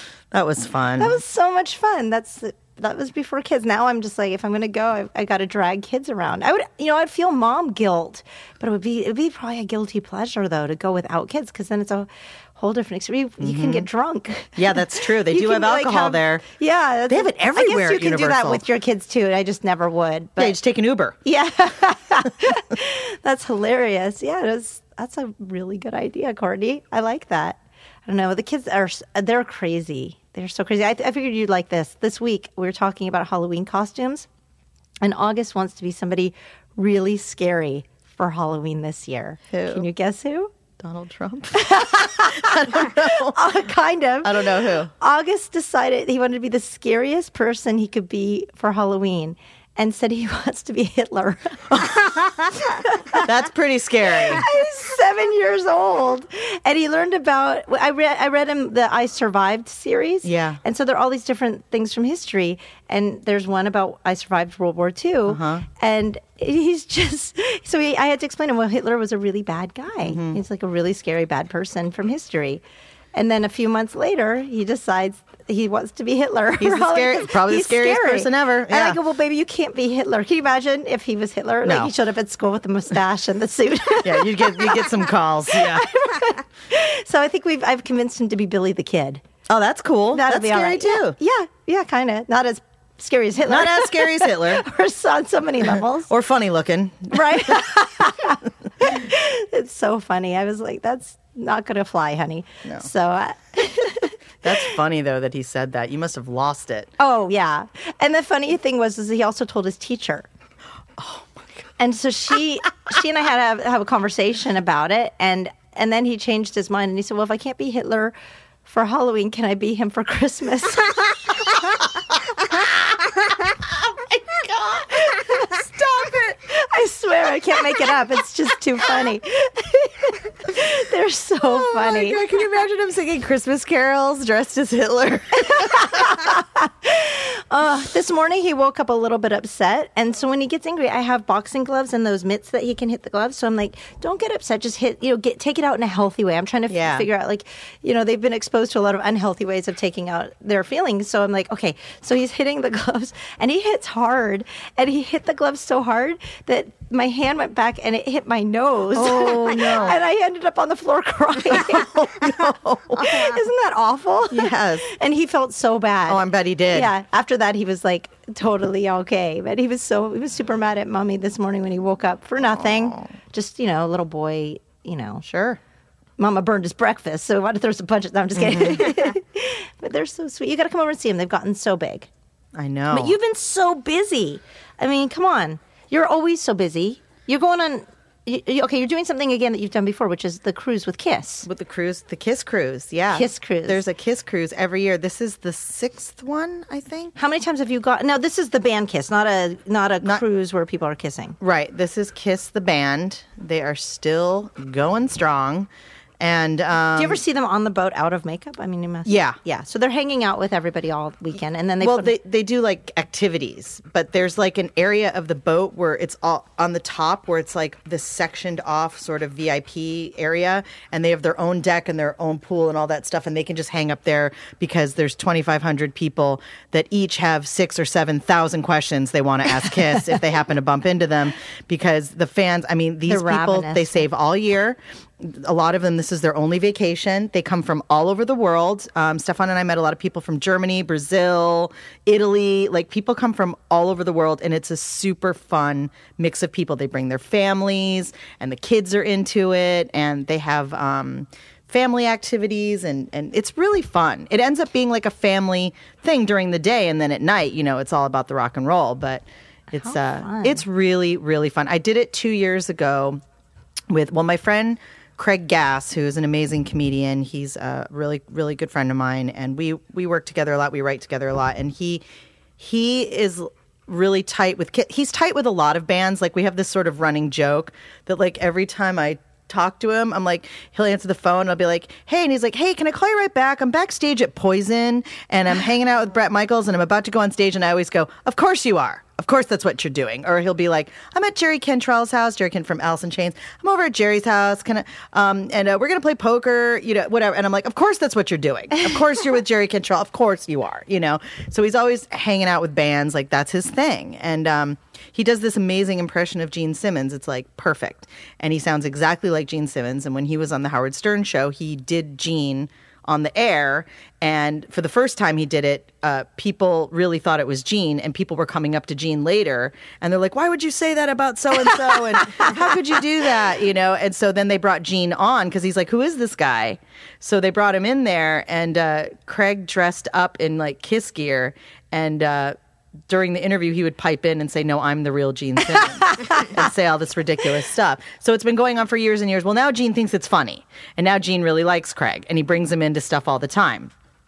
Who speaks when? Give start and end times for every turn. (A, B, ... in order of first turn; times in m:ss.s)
0:00.3-0:01.2 A
0:01.0-0:20.6 B
0:13.4-0:13.9 A
0:14.6-0:16.4 A
0:17.1-0:18.6 A
0:20.4-0:21.2 A
0:21.2-0:34.3 B
0:35.0-0:40.5 B
0:39.5-0:39.9 A
0:40.8-0:43.6 A
0:41.5-0:53.3 B
0:44.2-0:44.9 A
0:53.1-0:54.4 A
0:54.2-1:12.6 B
1:00.2-1:00.6 A
1:05.3-1:05.6 A
1:10.0-1:10.4 A
1:13.1-1:24.9 B
1:16.6-1:19.0 A
1:21.6-1:21.9 A
1:24.0-1:25.9 A
1:25.5-1:29.2 B
1:29.5-1:31.2 A
1:30.1-1:36.1 B
1:33.4-1:34.6 A
1:36.1-1:37.6 A
1:37.1-1:44.1 B
1:44.4-1:46.9 A
1:47.0-1:50.3 B
1:51.0-1:51.5 A
1:51.8-1:58.1 B
1:58.6-2:01.0 B
2:03.8-2:06.4 A
2:06.5-2:12.2 B
2:11.4-2:16.3 A
2:15.4-2:42.3 B
2:26.7-2:27.1 A
2:38.9-2:40.0 A
2:41.5-2:43.3 A
2:42.9-2:55.2 B
2:44.3-2:44.9 A
2:46.1-2:46.9 A
2:52.4-2:53.1 A
2:55.2-2:55.6 A
2:56.2-3:02.1 B
2:58.3-2:59.0 A
3:02.5-3:03.2 A
3:02.9-3:11.5 B
3:11.4-3:17.1 A
3:13.1-3:13.8 B
3:17.2-3:21.4 B
3:21.4-3:25.7 A
3:26.2-3:27.2 A
3:26.9-3:32.1 B
3:29.0-3:29.4 A
3:31.8-4:23.2 A
3:53.1-3:54.0 B
4:19.7-4:20.6 B
4:23.9-4:32.0 A
4:32.6-5:32.6 A
5:33.1-5:43.9 A
5:35.8-5:36.5 B